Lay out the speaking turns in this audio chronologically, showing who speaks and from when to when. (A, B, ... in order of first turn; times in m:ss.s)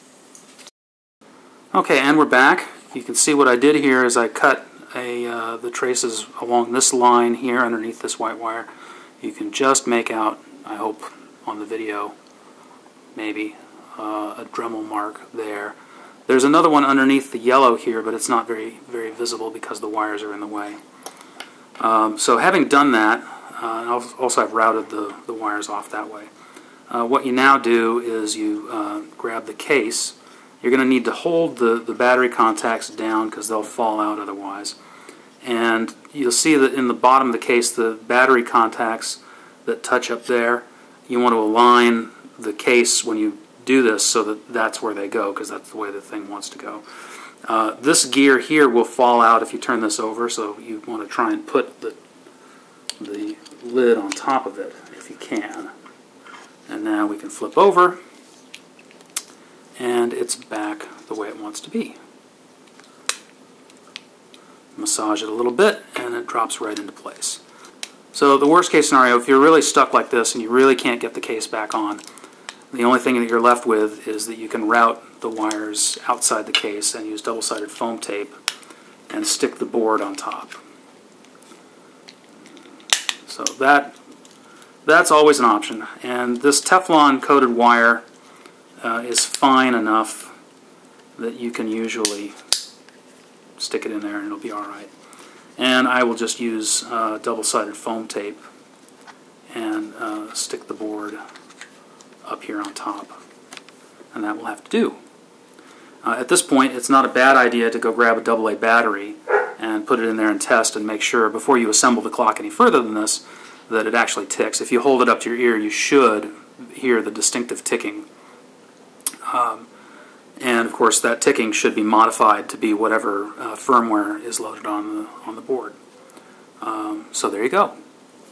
0:01.7-0:08.7 A
0:09.2-0:12.1 A
0:13.1-0:15.8 A
0:16.3-0:20.8 A
0:21.8-0:26.3 A
0:26.9-0:34.8 A
0:35.4-0:46.8 A
0:47.4-0:52.0 A
0:53.0-0:55.7 A
0:56.7-0:58.0 A
0:59.8-1:02.0 A
1:04.8-1:07.4 A
1:08.1-1:12.0 A
1:12.7-1:18.4 A
1:19.1-1:20.6 A
1:23.3-1:24.0 A
1:24.8-1:28.0 A
1:28.8-1:30.3 A
1:31.2-1:32.4 A
1:33.6-1:34.9 A
1:35.6-1:38.4 A
1:39.5-1:41.2 A
1:42.2-1:43.2 A
1:44.1-1:45.0 A
1:46.0-1:58.0 A
1:59.3-1:59.7 A
2:00.4-2:05.8 A
2:06.6-2:07.7 A